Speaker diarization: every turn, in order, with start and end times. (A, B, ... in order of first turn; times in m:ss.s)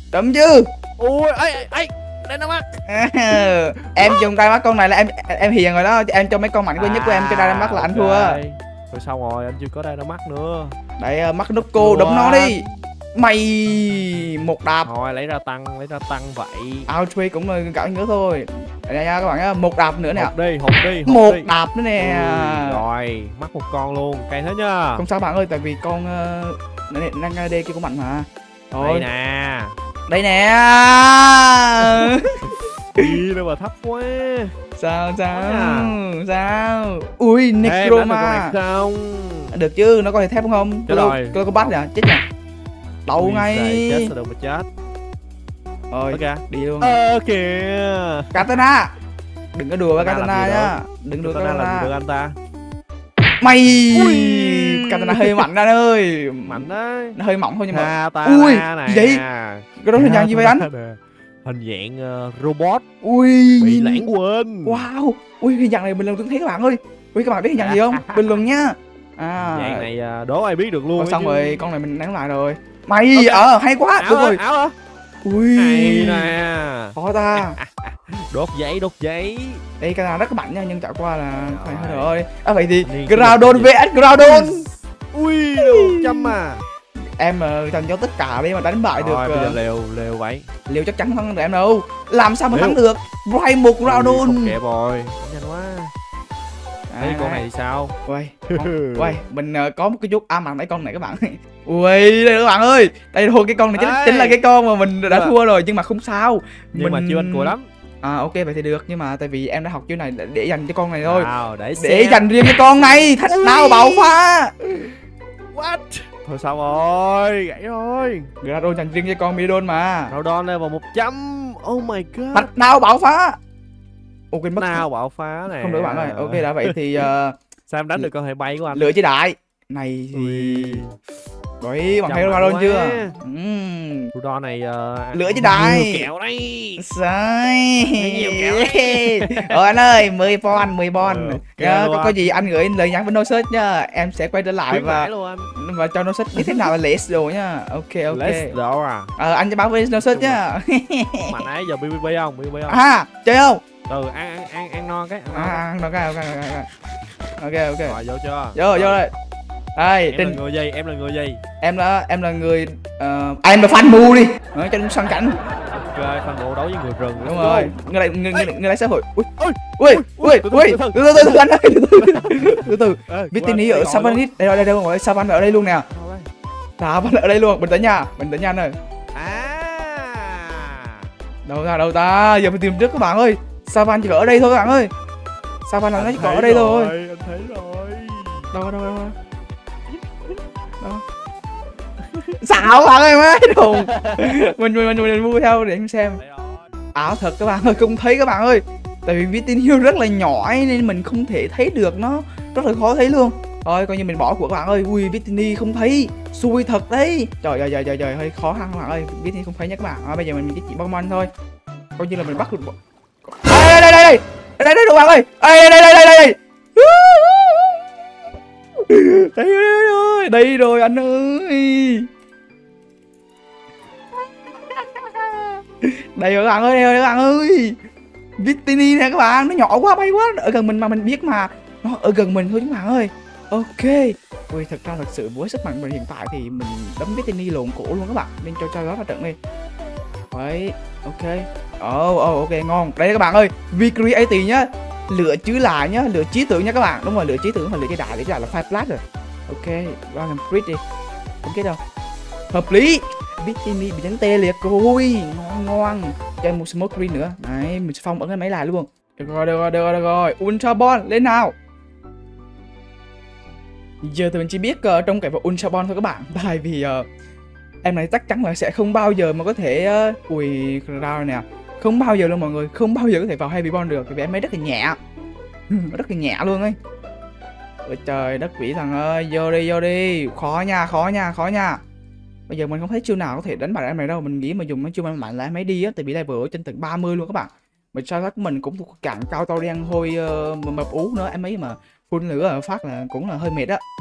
0:00.1-0:00.7 A
0:01.0-0:04.2 B
0:02.9-0:08.4 A
0:06.8-0:10.8 B
0:11.0-0:14.9 A
0:11.8-0:12.7 B
0:14.8-0:16.9 B
0:16.9-0:20.3 A
0:20.1-0:25.0 B
0:21.1-0:22.8 A
0:25.0-0:29.1 A
0:28.8-0:29.8 B
0:30.1-0:33.2 A
0:31.8-0:34.6 B
0:34.8-0:38.6 A
0:35.3-0:35.9 B
0:37.6-0:39.6 B
0:39.5-0:42.2 A
0:40.9-0:41.7 B
0:43.1-0:44.1 A
0:43.2-0:44.7 B
0:45.9-0:47.0 A
0:46.1-0:48.5 B
0:48.3-0:48.9 A
0:49.5-0:51.9 A
0:50.0-0:52.4 B
0:53.4-0:59.2 A
0:53.9-0:55.5 B
0:56.5-0:57.2 B
0:57.7-1:02.8 B
0:59.8-1:00.7 A
1:03.0-1:04.1 A
1:03.6-1:04.9 B
1:04.6-1:09.9 A
1:07.6-1:08.3 B
1:09.5-1:11.6 B
1:11.0-1:14.4 A
1:13.2-1:13.5 B
1:14.0-1:14.8 B
1:15.2-1:16.4 A
1:15.6-1:19.6 B
1:17.0-1:17.6 A
1:19.8-1:24.7 A
1:21.5-1:22.2 B
1:22.8-1:26.6 B
1:25.6-1:26.4 A
1:27.0-1:29.6 A
1:29.0-1:30.5 B
1:30.7-1:34.6 A
1:32.5-1:32.8 B
1:33.8-1:35.9 B
1:36.9-1:37.4 A
1:37.0-1:38.0 B
1:38.0-1:54.6 A
1:38.5-1:39.2 B
1:43.7-1:44.4 B
1:45.1-1:45.4 B
1:46.8-1:47.7 B
1:51.0-1:55.0 B
1:55.5-1:58.3 B
1:58.4-2:00.1 A
2:00.1-2:02.5 B
2:02.3-2:03.4 A
2:04.3-2:04.8 A
2:04.6-2:07.1 B
2:05.5-2:07.4 A
2:07.7-2:08.9 B
2:08.7-2:10.8 A
2:10.1-2:11.0 B
2:11.6-2:14.1 A
2:12.1-2:13.2 B
2:14.1-2:16.9 B
2:15.1-2:16.1 A
2:16.8-2:28.6 A
2:18.0-2:19.8 B
2:20.6-2:22.5 B
2:24.7-2:25.5 B
2:26.4-2:26.7 B
2:28.1-2:29.1 B
2:29.2-2:31.4 A
2:30.0-2:30.4 B
2:31.3-2:32.8 B
2:32.7-2:33.6 A
2:33.9-2:35.7 B
2:35.3-2:36.7 A
2:37.4-2:38.0 A
2:37.8-2:39.0 B
2:38.6-2:39.1 A
2:39.8-2:40.4 A
2:40.1-2:41.4 B
2:41.6-2:45.4 A
2:45.4-2:47.8 B
2:47.2-2:55.9 A
2:49.4-2:54.2 B
2:55.9-2:56.3 B
2:56.8-2:58.8 A
2:59.1-3:01.1 B
3:01.5-3:04.9 A
3:05.7-3:06.9 A
3:06.0-3:08.5 B
3:08.5-3:09.2 A
3:12.0-3:12.4 B
3:12.4-3:16.2 A
3:13.6-3:14.5 B
3:16.2-3:16.7 B
3:16.9-3:31.3 A
3:32.0-3:32.8 A
3:33.3-3:37.9 A
3:38.8-3:42.1 A
3:44.6-3:47.8 A
3:48.4-3:59.4 A
4:00.3-4:10.8 A
4:11.4-4:11.8 A
4:12.5-4:21.6 A
4:24.0-4:27.1 A
4:27.8-4:35.0 A
4:35.7-4:36.8 A
4:37.8-4:41.8 A
4:42.5-4:53.8 A